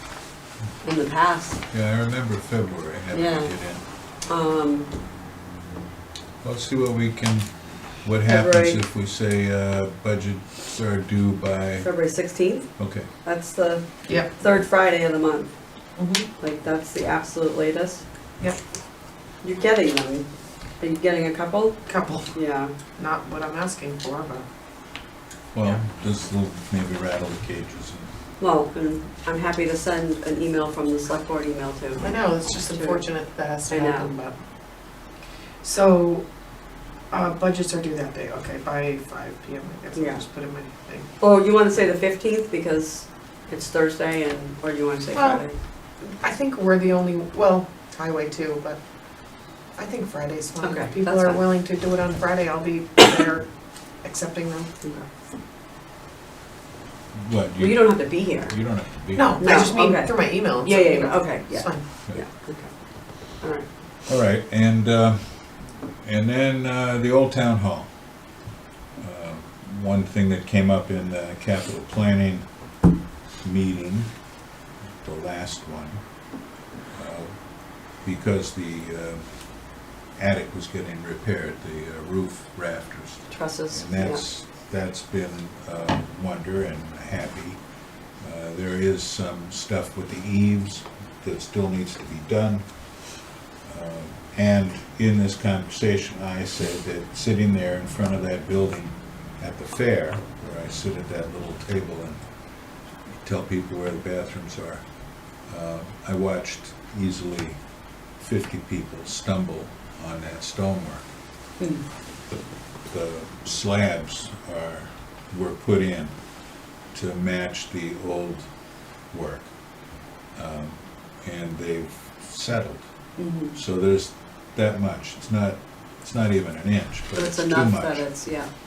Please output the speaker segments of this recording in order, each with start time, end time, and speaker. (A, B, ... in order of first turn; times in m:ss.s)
0:00.8-0:01.6 A
0:01.7-0:03.8 B
0:03.1-0:03.5 A
0:04.3-0:04.9 A
0:06.4-0:07.5 B
0:08.0-0:11.9 B
0:08.2-0:08.8 A
0:11.8-0:12.7 A
0:12.8-0:13.1 B
0:13.2-0:15.5 A
0:16.0-0:16.3 C
0:16.4-0:18.0 A
0:19.4-0:20.2 A
0:20.8-0:21.8 A
0:21.9-0:22.3 C
0:22.3-0:22.7 A
0:23.0-0:24.4 C
0:25.5-0:28.1 B
0:28.4-0:33.0 A
0:32.0-0:34.4 C
0:33.7-0:34.1 A
0:35.6-0:36.2 C
0:37.1-0:41.1 C
0:39.9-0:40.2 A
0:41.2-0:45.5 A
0:45.1-0:45.4 C
0:46.0-0:48.8 C
0:49.8-0:53.5 C
0:50.6-0:51.4 A
0:54.0-0:54.7 C
0:57.1-0:59.4 B
0:57.6-0:58.6 A
0:59.1-1:01.8 C
0:59.4-1:02.7 A
1:03.4-1:03.7 A
1:04.0-1:05.5 B
1:06.0-1:07.9 B
1:09.0-1:12.4 B
1:13.4-1:14.1 B
1:15.0-1:16.0 B
1:16.9-1:17.3 B
1:18.0-1:19.3 B
1:20.2-1:27.6 B
1:23.3-1:24.2 A
1:28.2-1:32.7 B
1:33.6-1:42.2 B
1:43.2-1:44.8 B
1:45.5-1:47.6 B
1:48.2-1:51.1 B
1:51.6-1:51.8 A
1:52.3-1:56.1 B
1:56.9-1:58.5 B
1:59.1-1:59.5 B
2:00.3-2:02.9 B
2:03.2-2:03.5 A
2:03.5-2:08.0 B
2:07.1-2:08.5 A